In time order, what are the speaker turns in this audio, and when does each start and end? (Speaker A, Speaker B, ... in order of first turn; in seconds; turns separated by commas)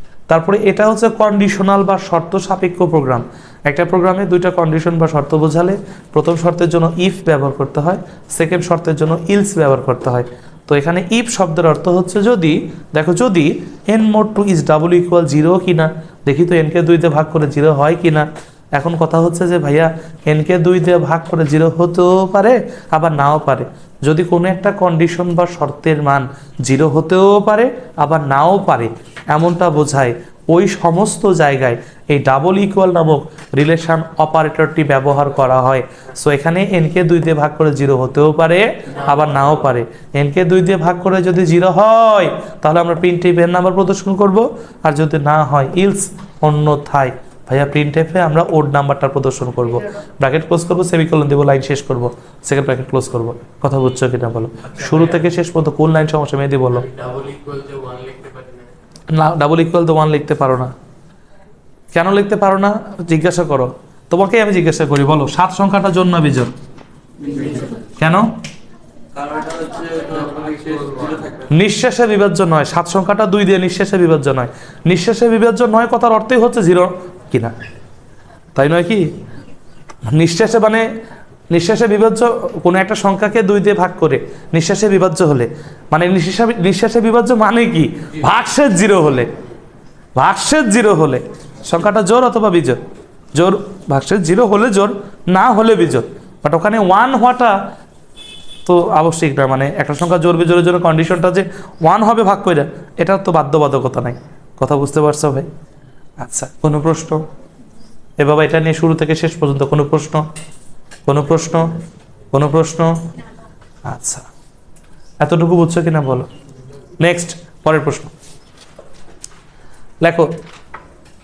Speaker A: 0.3-56.9, Speaker B: 54.8-55.1, Speaker B: 56.8-58.7, Speaker A: 59.1-60.7, Speaker A: 61.9-66.5, Speaker B: 67.3-67.7, Speaker A: 68.0-68.4, Speaker B: 69.2-71.5, Speaker A: 71.5-77.5, Speaker A: 78.6-79.1, Speaker A: 80.1-80.9, Speaker A: 81.5-89.3, Speaker A: 90.2-92.8, Speaker A: 93.3-97.7, Speaker A: 98.7-105.5, Speaker A: 106.2-107.2, Speaker A: 108.2-110.3, Speaker A: 111.1-111.8, Speaker A: 112.3-113.0, Speaker A: 113.9-114.3, Speaker A: 115.2-116.3, Speaker A: 117.0-118.1, Speaker A: 120.0-120.3